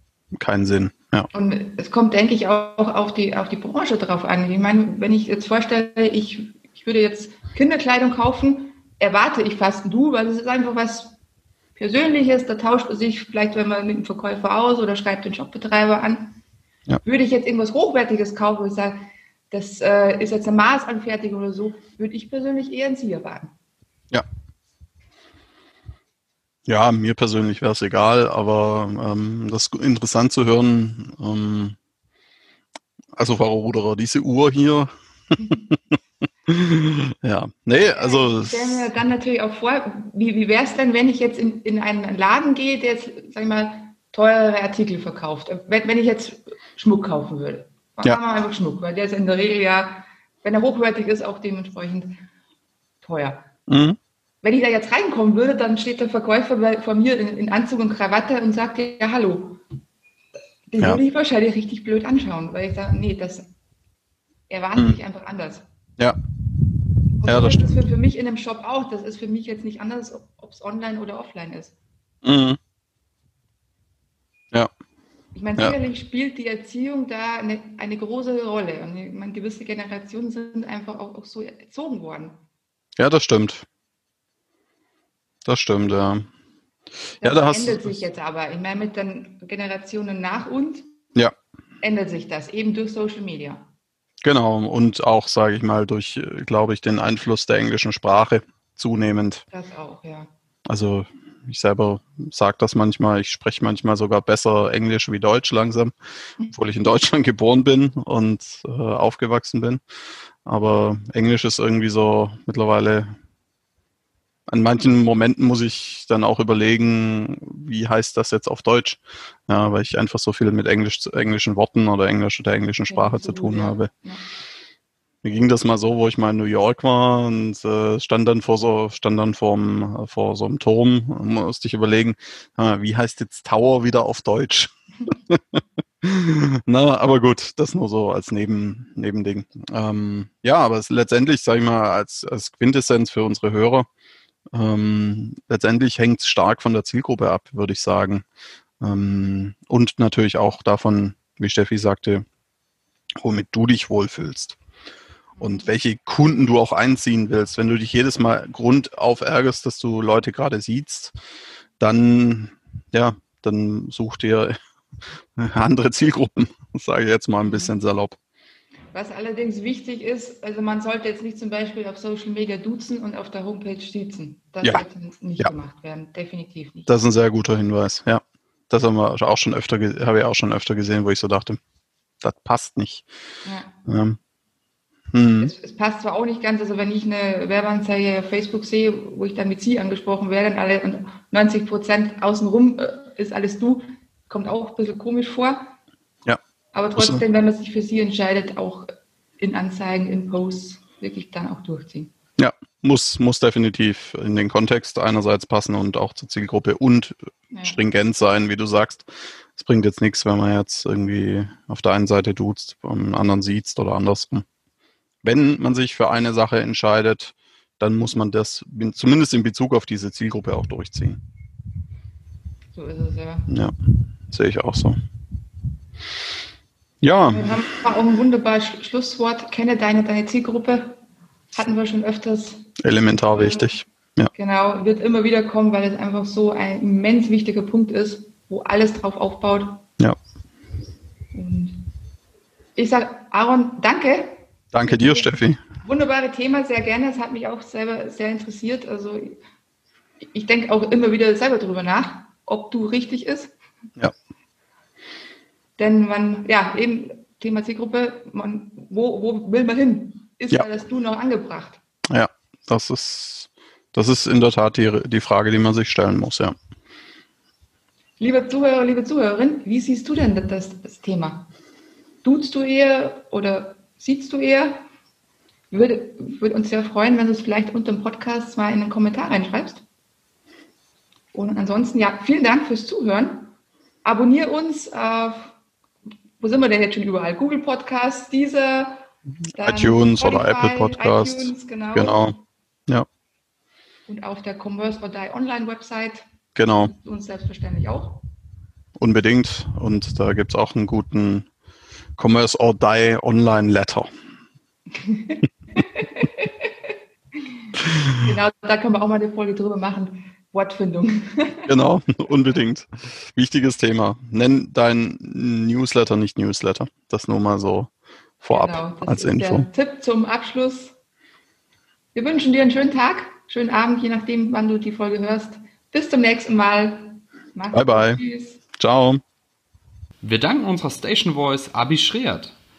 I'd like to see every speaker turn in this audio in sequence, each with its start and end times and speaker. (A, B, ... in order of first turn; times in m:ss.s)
0:00.3-0:01.3 A
0:01.3-0:11.2 B
0:11.8-0:16.4 B
0:17.0-0:23.5 B
0:26.7-0:31.8 A
0:33.2-0:34.9 A
0:35.4-0:35.8 A
0:36.5-0:38.9 A
0:37.9-0:52.2 B
0:53.0-0:53.5 B
0:53.7-0:54.0 A
0:54.4-0:59.6 B
1:00.7-1:03.5 B
1:04.5-1:05.6 B
1:07.2-1:11.7 B
1:07.2-1:07.8 A
1:12.2-1:12.6 A
1:15.4-1:22.4 B
1:23.0-1:23.6 A
1:25.5-1:26.3 A
1:27.2-1:30.9 B
1:27.2-1:28.0 A
1:31.8-1:33.6 B
1:34.2-1:39.4 A
1:39.5-1:40.3 B
1:40.6-1:45.9 A
1:46.5-1:49.8 A
1:50.5-1:53.1 A
1:54.5-2:03.9 A
2:02.9-2:04.2 B
2:05.2-2:23.9 A
2:24.5-2:28.2 A
2:28.8-2:32.2 A
2:33.2-2:34.6 A
2:35.4-2:35.7 B
2:35.4-2:41.1 A
2:41.8-2:44.5 A
2:45.4-2:48.2 A
2:47.4-2:47.7 B
2:48.9-2:56.9 B
2:56.9-3:01.6 A
3:02.2-3:03.0 A
3:03.4-3:03.7 B
3:03.9-3:04.2 A
3:05.1-3:05.5 A
3:05.4-3:15.7 B
3:16.7-3:22.1 B
3:17.0-3:17.2 A
3:22.4-3:34.4 A
3:27.5-3:27.8 B
3:35.2-3:41.2 A
3:42.8-3:43.5 B
3:43.5-3:43.7 A
3:44.3-3:45.0 A
3:47.0-3:47.7 A
3:47.3-3:51.0 B
3:51.5-3:52.8 B
3:52.8-3:54.3 A
3:53.3-3:53.8 B
3:54.3-3:59.8 B
4:01.3-4:01.9 B
4:02.8-4:09.4 B
4:04.7-4:05.6 A
4:10.2-4:13.5 B
4:15.8-4:21.8 B
4:22.1-4:26.5 A
4:28.2-4:31.5 B
4:32.2-4:34.8 B
4:35.7-4:39.8 B
4:41.3-4:43.5 B
4:44.0-4:45.5 B
4:46.4-4:49.0 B
4:49.5-4:52.3 B
4:49.6-4:52.3 A
4:54.1-4:56.2 B
4:56.5-4:56.9 A
4:56.8-4:58.2 B
4:59.0-5:01.5 A
5:02.2-5:04.1 A
5:05.0-5:07.4 B
5:08.2-5:11.7 B
5:11.7-5:17.9 A
5:18.4-5:19.7 A
5:18.5-5:20.9 B
5:22.2-5:28.6 B
5:27.7-5:28.2 A
5:28.8-5:29.2 A
5:30.2-5:32.5 C